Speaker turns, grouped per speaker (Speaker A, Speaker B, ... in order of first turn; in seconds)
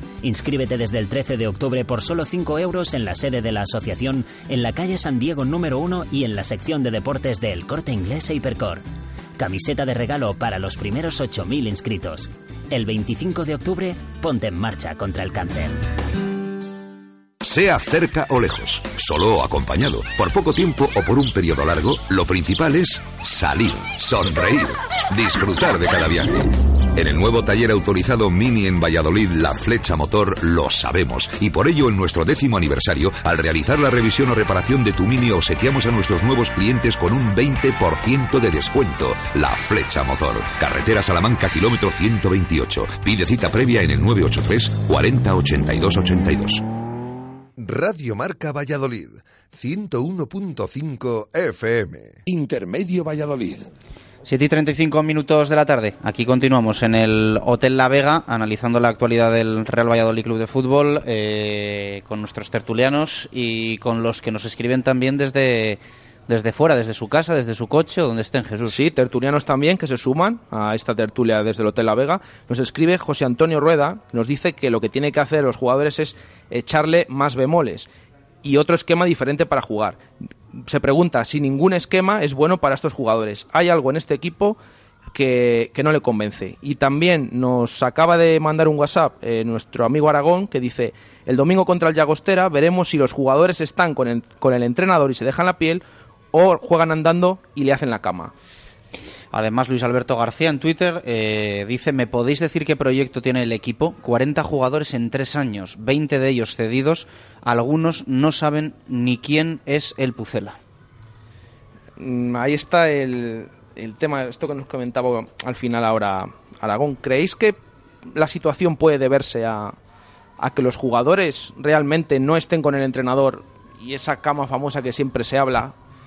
Speaker A: 0.2-8.8, 9.4-15.8
Speaker B: 17.4-46.6
Speaker C: 47.6-53.7
Speaker D: 54.2-68.8, 99.3-110.6
Speaker E: 68.7-77.9, 78.4-80.0, 80.5-84.6, 85.1-98.3, 112.0-117.6, 118.1-119.7, 120.4-125.7